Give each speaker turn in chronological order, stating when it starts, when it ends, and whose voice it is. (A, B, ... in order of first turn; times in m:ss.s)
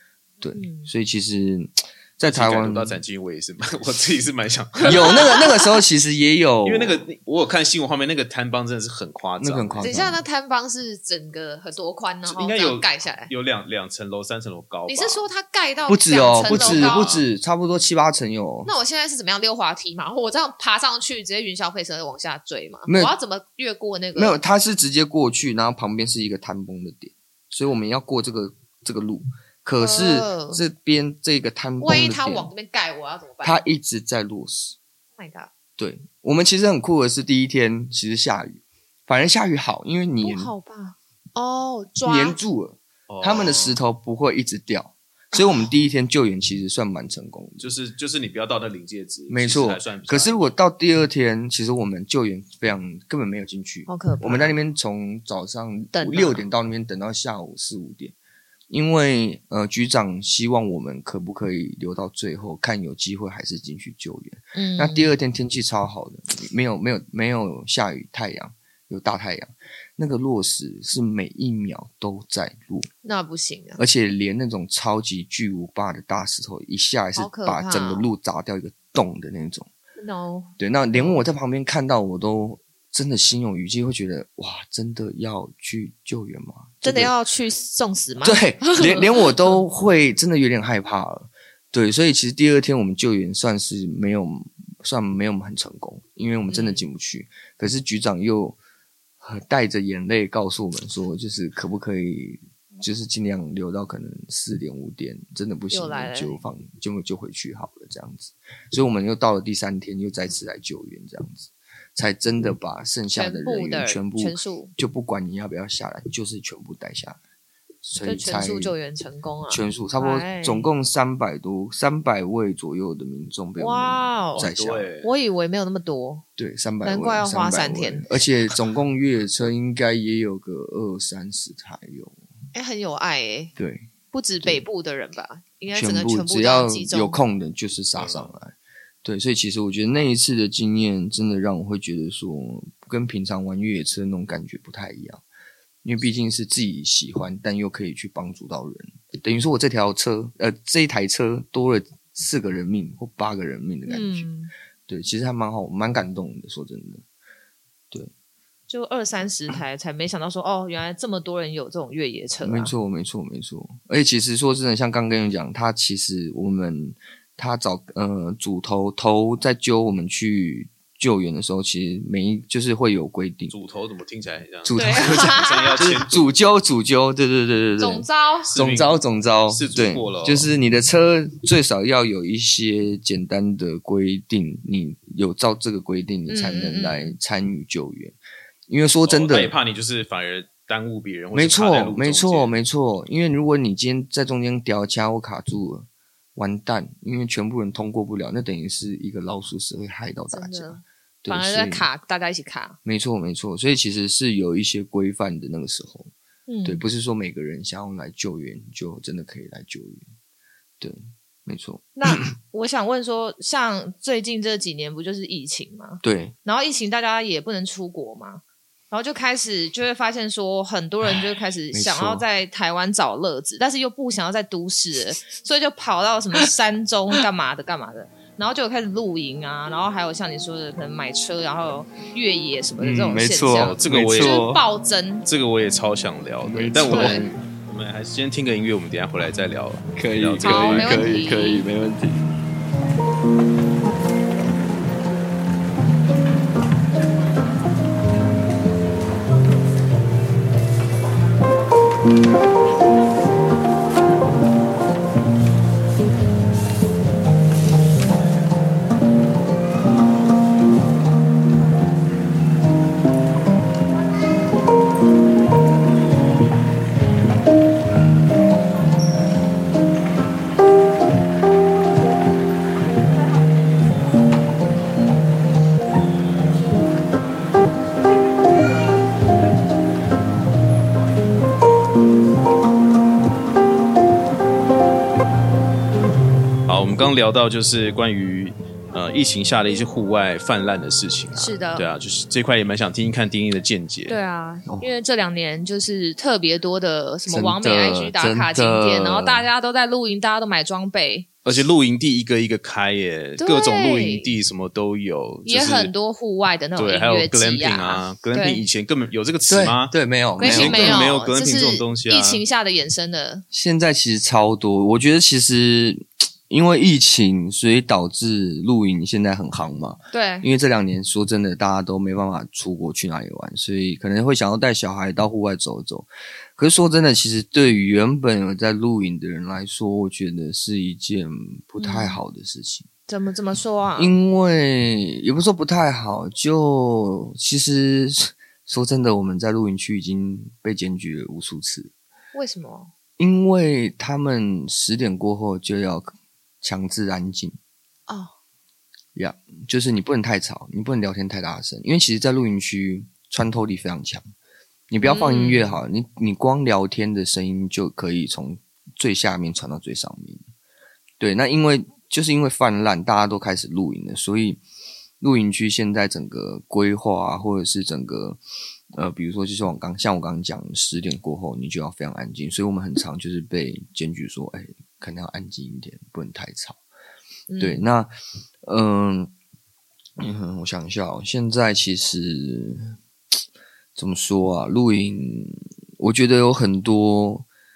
0:00.4-0:03.0 A
0:00.5-0:00.9 B
0:02.2-0:05.4 C
0:04.8-0:05.6 B
0:04.8-0:07.0 A
0:06.6-0:09.9 C
0:09.4-0:10.2 A
0:09.8-0:13.3 B
0:12.2-0:15.2 C
0:14.9-0:17.1 B
0:15.9-0:18.7 A
0:16.4-0:17.2 C
0:18.6-0:24.4 B
0:22.9-0:23.1 A
0:24.1-0:32.5 A
0:29.8-0:30.6 B
0:31.8-0:33.6 B
0:33.4-0:34.8 A
0:35.2-0:35.5 B
0:35.8-0:40.5 A
0:40.2-0:42.4 B
0:42.0-0:47.7 A
0:43.1-0:43.8 C
0:45.3-0:45.6 B
0:47.6-0:50.5 C
0:49.3-0:58.1 A
0:53.9-0:54.5 B
0:55.9-0:56.4 B
0:58.7-1:12.9 A
1:04.5-1:05.2 B
1:13.0-1:13.8 B
1:13.8-1:19.7 A
1:17.2-1:18.1 B
1:20.0-1:21.2 B
1:20.6-1:27.1 A
1:26.8-1:29.6 B
1:28.2-1:38.6 A
1:36.5-1:36.9 B
1:39.2-1:57.2 A
1:45.7-1:46.4 B
1:53.1-1:54.7 B
1:57.8-1:58.7 A
1:58.0-2:00.7 B
1:59.5-2:04.9 A
2:03.6-2:04.5 B
2:04.4-2:05.1 C
2:05.0-2:06.2 B
2:06.4-2:12.2 A
2:06.8-2:08.1 B
2:12.5-2:13.5 B
2:13.6-2:13.9 A
2:14.1-2:17.2 B
2:15.7-2:25.2 A
2:17.9-2:18.3 C
2:25.8-2:34.3 A
2:33.9-2:34.5 B
2:34.9-2:37.0 A
2:38.7-2:42.7 B
2:42.4-2:53.5 A
2:53.5-2:56.3 C
2:54.6-3:09.5 A
2:54.7-2:56.0 B
2:57.8-2:58.5 B
2:58.5-3:00.5 C
3:06.3-3:07.1 B
3:09.0-3:12.5 C
3:11.3-3:21.9 A
3:20.3-3:22.8 B
3:22.8-3:26.1 A
3:26.5-3:26.8 B
3:26.6-3:30.1 A
3:30.8-3:32.3 A
3:32.0-3:55.3 B
3:36.0-3:36.3 A
3:41.1-3:42.2 A
3:52.8-3:54.6 A
3:53.5-3:54.5 C
3:55.2-4:01.0 C
3:56.4-3:57.4 A
3:56.8-3:57.2 B
3:59.9-4:02.2 A
4:00.4-4:01.6 B
4:46.7-4:54.2 C
4:51.3-4:51.9 B
4:54.1-5:01.3 B
4:57.3-4:59.5 A
5:01.4-5:05.9 C
5:03.4-5:04.3 B
5:05.4-5:08.6 B
5:06.8-5:12.4 C
5:09.5-5:11.1 A
5:10.4-5:13.4 B
5:13.5-5:32.9 A
5:20.1-5:20.5 B
5:31.8-5:32.2 B
5:33.1-5:34.1 B
5:34.0-5:41.9 A
5:42.3-5:42.9 B
5:43.2-5:47.6 A
5:48.1-5:48.3 B
5:49.1-5:54.2 A
5:54.9-6:00.4 A
5:55.0-5:55.8 B
6:01.2-6:04.6 A
6:05.2-6:08.4 A
6:08.9-6:16.8 A
6:17.5-6:17.9 B
6:17.6-6:19.3 A
6:20.2-6:23.0 A
6:24.0-6:27.4 A